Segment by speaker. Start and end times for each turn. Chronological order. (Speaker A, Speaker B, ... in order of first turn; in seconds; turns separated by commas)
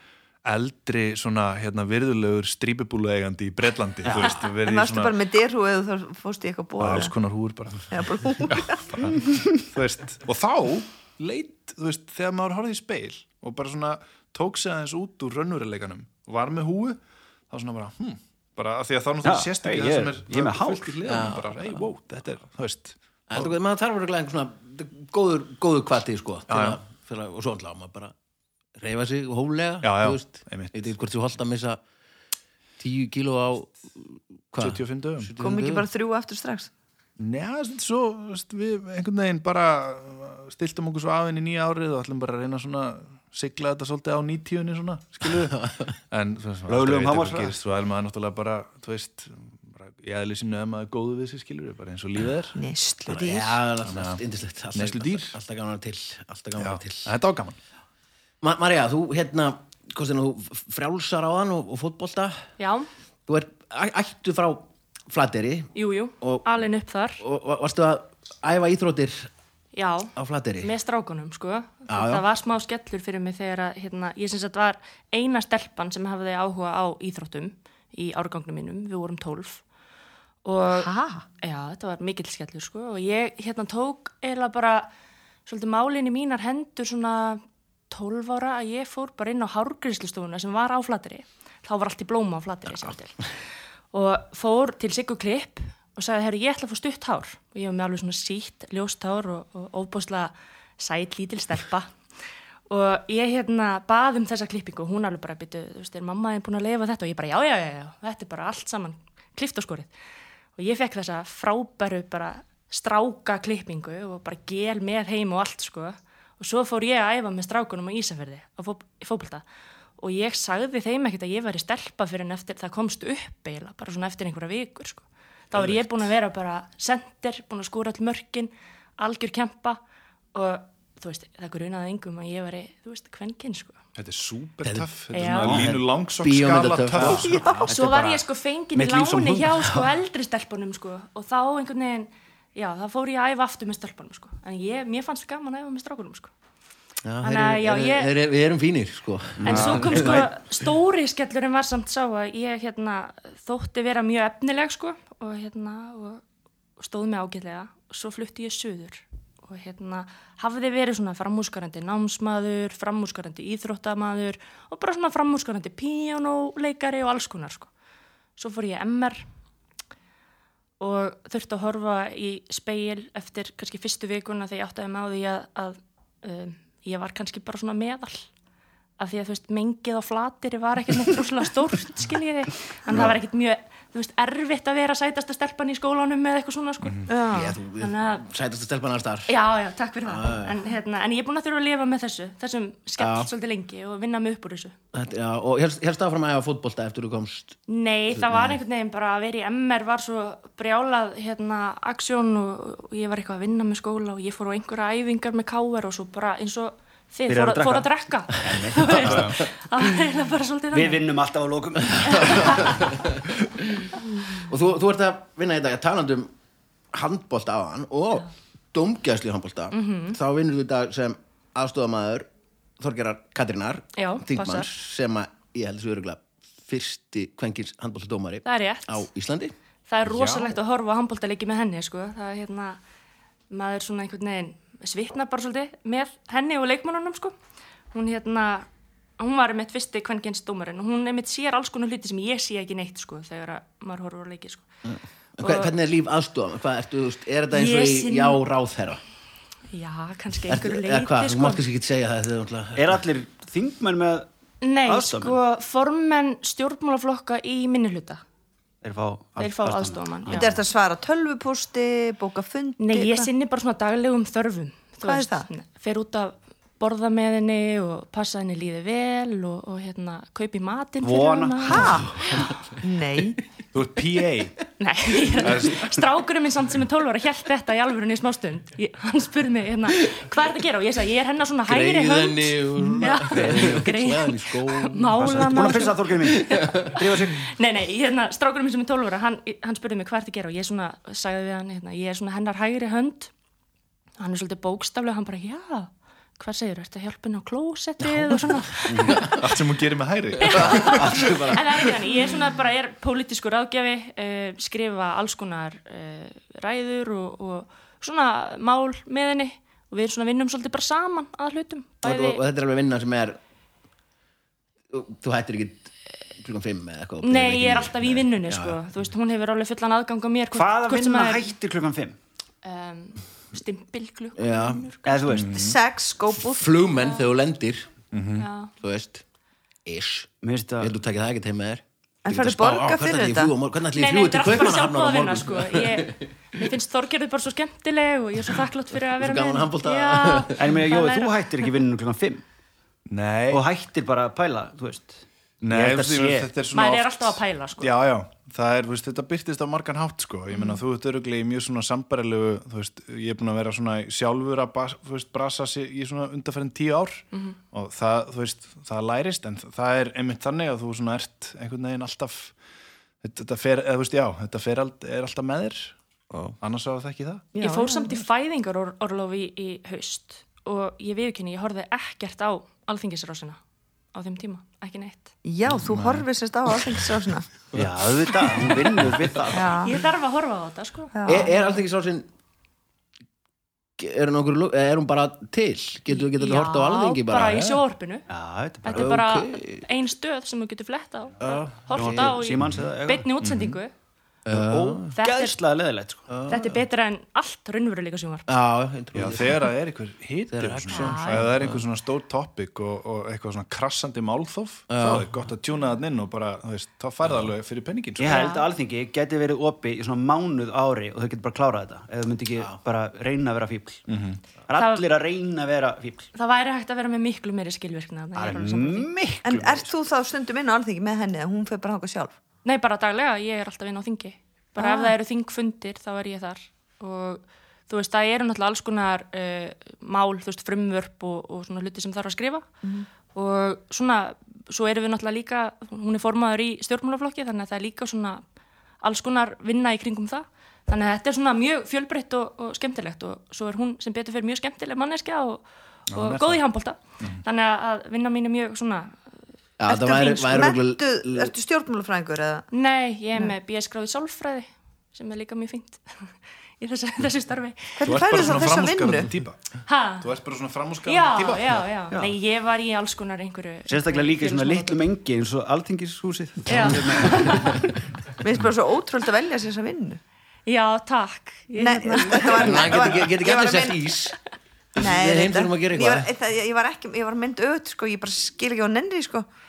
Speaker A: 0.4-5.1, Speaker B: 4.0-4.4, Speaker C: 4.1-7.1, Speaker A: 6.8-23.5, Speaker C: 7.9-9.1, Speaker B: 19.2-20.9, Speaker D: 21.1-21.7, Speaker D: 23.3-28.1, Speaker A: 26.5-26.8, Speaker D: 28.8-31.8, Speaker A: 29.8-30.9, Speaker D: 32.8-35.9, Speaker A: 34.6-35.3, Speaker C: 35.4-36.7, Speaker A: 37.2-52.6, Speaker D: 45.6-45.9, Speaker B: 46.7-47.5, Speaker C: 52.5-53.6, Speaker D: 53.1-57.1, Speaker A: 53.8-54.2, Speaker A: 54.7-55.3, Speaker A: 56.6-57.6, Speaker D: 58.4-62.5, Speaker E: 62.6-62.9, Speaker D: 63.3-66.5, Speaker E: 65.7-67.2, Speaker D: 67.2-69.3, Speaker E: 69.7-79.6, Speaker D: 70.1-70.7, Speaker D: 71.9-72.2, Speaker E: 80.4-84.9, Speaker C: 80.7-81.2, Speaker E: 85.5-93.3, Speaker E: 93.9-101.9, Speaker E: 102.7-109.9, Speaker E: 110.6-119.4, Speaker E: 120.0-129.8, Speaker E: 130.3-133.8, Speaker A: 133.9-137.5, Speaker E: 135.1-135.6, Speaker B: 135.4-135.8, Speaker D: 136.2-137.6, Speaker B: 137.0-139.8, Speaker C: 137.1-137.7, Speaker E: 137.7-146.3, Speaker D: 147.0-150.3, Speaker E: 147.2-148.1, Speaker B: 149.4-150.3, Speaker E: 149.4-156.2, Speaker E: 156.8-167.7, Speaker E: 168.4-169.2, Speaker E: 170.8-178.3, Speaker E: 179.0-187.2, Speaker C: 187.1-187.6, Speaker D: 187.3-189.3, Speaker E: 187.8-188.2, Speaker E: 189.3-194.7, Speaker D: 190.0-190.6, Speaker D: 193.0-193.3, Speaker D: 194.9-197.6, Speaker E: 197.7-211.1, Speaker D: 198.1-198.6, Speaker B: 207.3-209.3, Speaker A: 209.0-209.3, Speaker B: 210.7-212.8, Speaker D: 212.0-213.4, Speaker E: 212.2-212.8, Speaker D: 214.3-216.3, Speaker D: 216.9-222.3, Speaker E: 219.7-220.2, Speaker D: 222.8-229.5, Speaker E: 224.0-224.7, Speaker E: 228.4-229.1, Speaker E: 229.9-232.8, Speaker A: 230.1-230.6, Speaker E: 233.5-237.3, Speaker E: 237.9-238.7, Speaker E: 239.2-244.7, Speaker D: 244.8-249.0, Speaker E: 245.4-245.7, Speaker E: 247.5-248.4, Speaker E: 249.7-251.6, Speaker D: 250.5-253.0, Speaker B: 252.8-254.3, Speaker E: 254.6-258.2, Speaker B: 254.8-255.4, Speaker B: 258.8-260.6, Speaker E: 259.4-260.5, Speaker C: 260.3-263.3, Speaker E: 262.8-272.3, Speaker C: 265.0-265.5, Speaker B: 271.0-271.9, Speaker C: 271.6-272.2, Speaker D: 272.2-272.5, Speaker C: 272.8-273.4, Speaker A: 273.7-274.5, Speaker E: 274.8-293.3, Speaker A: 275.4-275.9, Speaker D: 281.7-287.0, Speaker B: 285.1-287.5, Speaker E: 294.2-299.3, Speaker D: 298.0-299.4, Speaker B: 298.9-299.2, Speaker A: 299.3-301.1, Speaker E: 300.4-312.4, Speaker D: 300.4-301.9, Speaker D: 312.0-313.4, Speaker D: 314.9-318.8, Speaker E: 317.2-321.5, Speaker B: 320.5-322.2, Speaker E: 322.6-325.2, Speaker D: 324.4-324.8, Speaker B: 325.0-325.6, Speaker A: 325.3-325.8, Speaker C: 325.5-326.6, Speaker D: 326.4-327.9, Speaker E: 327.0-327.2, Speaker A: 328.1-328.5, Speaker E: 328.4-328.7, Speaker D: 328.8-329.2, Speaker D: 329.9-336.3, Speaker B: 330.4-330.9, Speaker C: 332.2-333.5, Speaker E: 333.9-341.7, Speaker D: 339.2-340.6, Speaker B: 340.6-342.4, Speaker A: 343.1-343.6, Speaker B: 343.5-346.5, Speaker A: 345.6-362.5, Speaker E: 346.7-347.9, Speaker E: 350.5-350.8, Speaker A: 363.2-365.9, Speaker D: 366.3-366.6, Speaker A: 366.6-367.5, Speaker C: 367.5-368.1, Speaker E: 367.6-373.6, Speaker E: 374.1-375.3, Speaker C: 375.4-377.6, Speaker A: 375.7-376.2, Speaker B: 377.7-379.8, Speaker C: 379.5-379.9, Speaker E: 379.8-381.4, Speaker C: 381.1-381.5, Speaker D: 381.2-382.2, Speaker D: 384.0-387.8, Speaker E: 386.1-388.3, Speaker B: 388.3-389.1, Speaker E: 388.8-393.9, Speaker D: 388.9-389.9, Speaker D: 391.4-392.4, Speaker B: 391.9-393.3, Speaker A: 393.4-393.8, Speaker D: 394.4-395.1, Speaker B: 394.5-396.3, Speaker E: 395.1-395.6, Speaker D: 396.3-396.8, Speaker E: 396.5-398.5, Speaker D: 398.5-399.6, Speaker A: 399.1-408.5, Speaker D: 400.5-401.8, Speaker E: 400.9-401.4, Speaker D: 404.9-405.3, Speaker B: 408.2-414.1, Speaker E: 408.3-408.7, Speaker A: 414.1-414.4, Speaker B: 414.7-416.3, Speaker E: 414.7-415.0, Speaker E: 416.3-419.1, Speaker B: 418.3-419.9, Speaker C: 419.4-422.3, Speaker E: 422.6-432.6, Speaker C: 424.8-425.1, Speaker E: 433.3-438.4, Speaker E: 439.0-449.2, Speaker A: 446.1-446.6, Speaker D: 449.8-451.5, Speaker C: 449.9-452.6, Speaker E: 452.7-458.2, Speaker C: 458.0-459.3, Speaker A: 458.0-459.7, Speaker E: 459.9-460.3, Speaker A: 460.2-461.8, Speaker E: 461.0-465.0, Speaker B: 463.9-467.9, Speaker E: 466.7-467.9, Speaker C: 468.4-470.2, Speaker E: 470.6-473.1, Speaker C: 471.8-474.1, Speaker D: 472.5-474.4, Speaker D: 474.9-476.3, Speaker C: 474.9-479.4